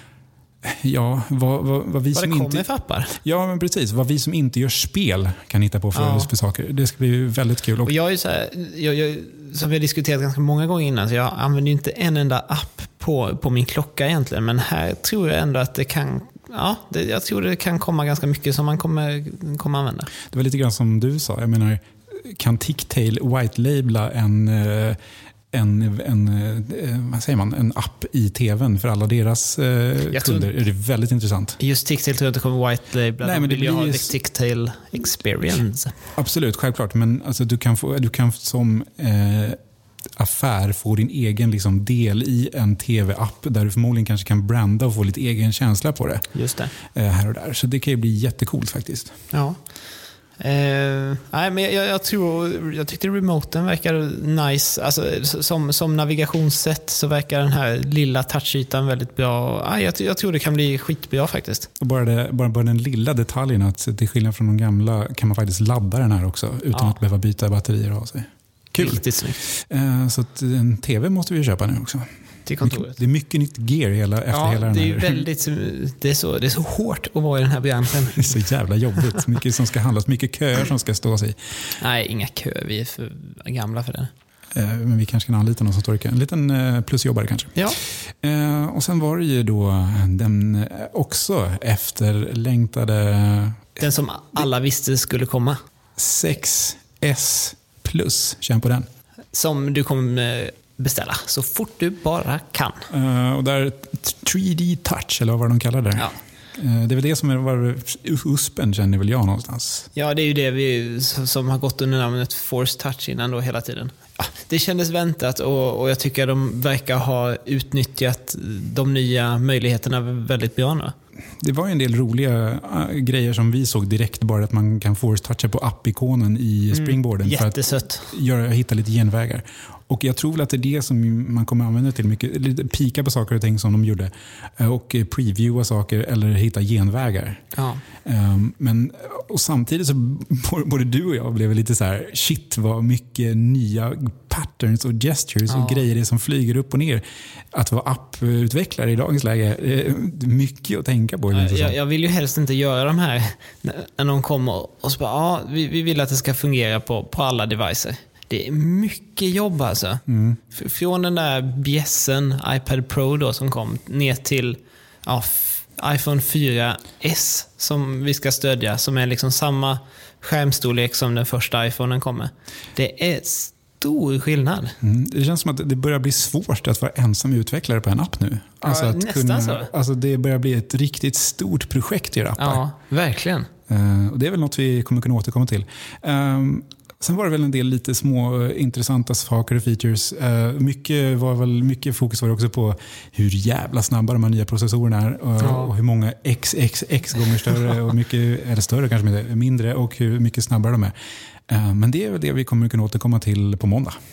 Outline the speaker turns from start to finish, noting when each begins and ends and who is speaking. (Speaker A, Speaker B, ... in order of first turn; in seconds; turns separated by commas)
Speaker A: 0.6-2.6, Speaker B: 2.1-3.1, Speaker A: 3.2-7.9, Speaker B: 5.9-6.3, Speaker B: 7.8-20.1, Speaker A: 20.3-25.0, Speaker A: 25.5-31.6, Speaker B: 30.1-30.5, Speaker B: 31.6-35.9, Speaker A: 33.2-34.1, Speaker A: 36.2-39.6, Speaker A: 40.2-46.2, Speaker B: 46.3-46.7, Speaker A: 46.9-49.1, Speaker B: 49.3-49.6, Speaker B: 50.4-61.7, Speaker A: 61.8-72.0, Speaker B: 68.8-69.4, Speaker B: 72.5-73.0, Speaker A: 72.6-75.3, Speaker B: 74.3-78.5, Speaker A: 78.1-81.4, Speaker B: 81.8-84.1, Speaker A: 84.5-87.6, Speaker A: 88.2-93.7, Speaker B: 93.8-95.6, Speaker A: 96.0-98.9, Speaker B: 99.3-102.8, Speaker A: 102.9-109.9, Speaker B: 110.0-120.9, Speaker A: 121.4-137.4, Speaker B: 126.7-128.1, Speaker B: 137.6-137.8, Speaker A: 138.0-151.8, Speaker B: 145.5-145.8, Speaker B: 151.3-174.8, Speaker A: 160.1-160.4, Speaker A: 174.8-182.6, Speaker B: 178.6-179.7, Speaker B: 182.4-183.5, Speaker A: 183.7-200.9, Speaker B: 195.4-195.7, Speaker A: 201.5-204.0